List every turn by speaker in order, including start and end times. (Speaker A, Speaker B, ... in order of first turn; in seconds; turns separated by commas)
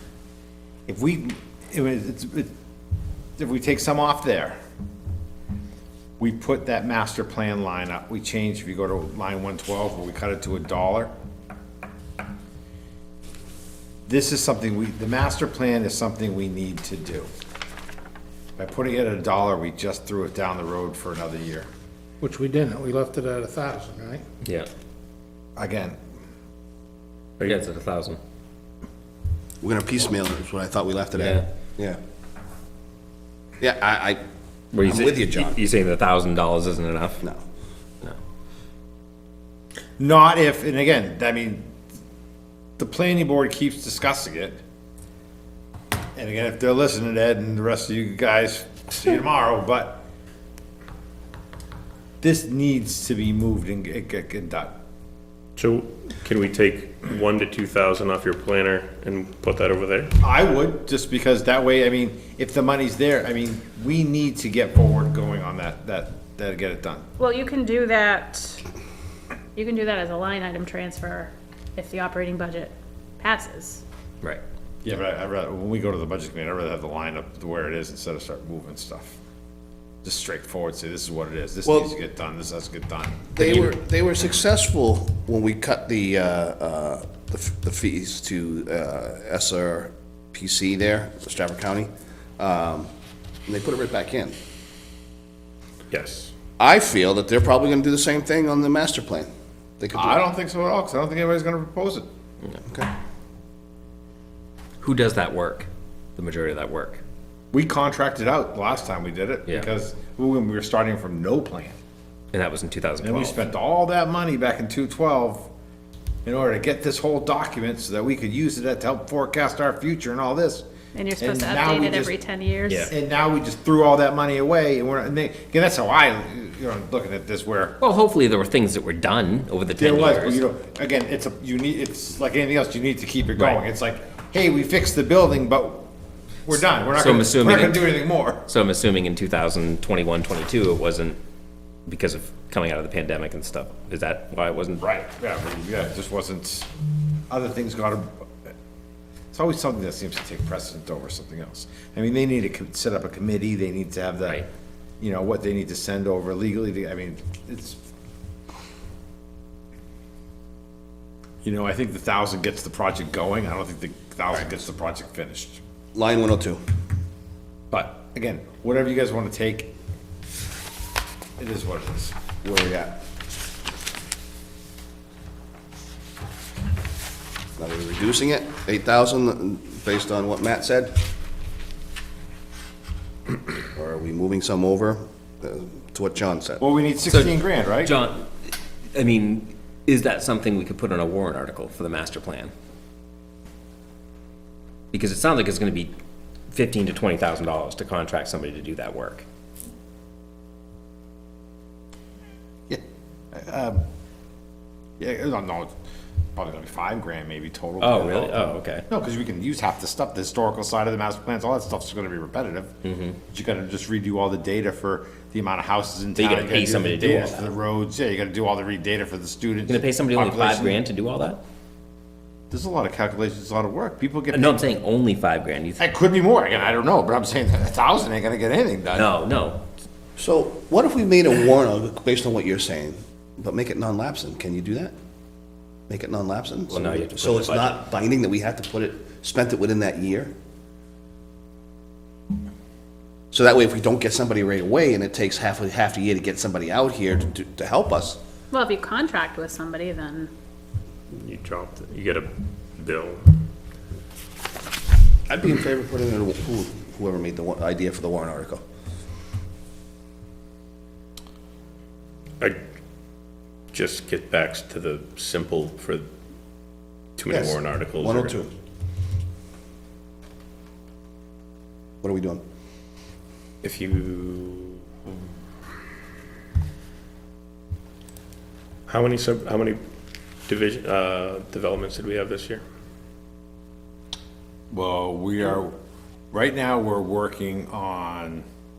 Speaker A: 0.9-2.5, Speaker A: 3.4-4.6, Speaker A: 6.2-11.1, Speaker A: 14.1-17.3, Speaker A: 18.6-21.7, Speaker B: 22.2-24.2, Speaker C: 24.4-24.7, Speaker A: 25.6-26.0, Speaker C: 27.4-28.2, Speaker D: 29.6-32.0, Speaker C: 31.1-31.5, Speaker D: 33.6-34.2, Speaker C: 34.7-37.2, Speaker D: 34.8-35.6, Speaker A: 40.0-41.7, Speaker A: 42.8-44.6, Speaker A: 46.1-50.0, Speaker A: 52.2-54.8, Speaker E: 55.6-60.1, Speaker A: 60.2-67.1, Speaker F: 67.2-68.6, Speaker F: 69.6-73.8, Speaker A: 74.8-79.2, Speaker A: 80.0-83.5, Speaker D: 81.7-81.9, Speaker D: 83.4-92.9, Speaker D: 93.5-94.4, Speaker E: 95.9-96.3, Speaker D: 96.6-100.2, Speaker A: 99.9-102.1, Speaker C: 104.8-107.0, Speaker A: 107.5-111.8, Speaker C: 112.3-113.4, Speaker A: 113.0-115.5, Speaker A: 116.2-120.7, Speaker F: 121.0-122.9, Speaker A: 121.2-122.1, Speaker A: 122.9-127.8, Speaker C: 127.8-130.4, Speaker A: 129.8-135.9, Speaker A: 136.5-138.4, Speaker C: 136.6-137.9, Speaker C: 138.5-141.2, Speaker C: 141.9-144.8, Speaker A: 144.8-146.7, Speaker A: 147.3-148.3, Speaker A: 149.3-154.4, Speaker A: 155.0-157.8, Speaker A: 161.4-165.6, Speaker D: 165.9-166.6, Speaker A: 167.7-169.7, Speaker A: 171.4-172.2, Speaker D: 172.4-173.0, Speaker D: 177.6-181.0, Speaker D: 183.7-186.6, Speaker A: 186.6-187.9, Speaker C: 187.1-192.5, Speaker C: 194.9-195.9, Speaker C: 196.5-199.2, Speaker A: 203.3-203.8, Speaker A: 205.0-205.7, Speaker A: 206.3-212.7, Speaker C: 207.8-208.9, Speaker C: 212.8-213.2, Speaker A: 213.3-220.8, Speaker C: 216.2-217.4, Speaker C: 219.7-221.4, Speaker A: 222.5-224.6, Speaker C: 224.3-225.8, Speaker A: 225.8-229.1, Speaker C: 228.9-229.6, Speaker D: 230.2-234.9, Speaker D: 235.9-240.3, Speaker C: 236.7-237.8, Speaker D: 243.3-248.2, Speaker F: 248.5-250.3, Speaker E: 251.1-253.2, Speaker D: 255.3-258.6, Speaker E: 263.7-266.1, Speaker E: 267.2-268.4, Speaker D: 267.3-268.5, Speaker D: 272.0-272.4, Speaker E: 273.6-275.1, Speaker E: 278.9-279.8, Speaker E: 280.5-282.6, Speaker A: 284.7-285.7, Speaker A: 286.3-288.5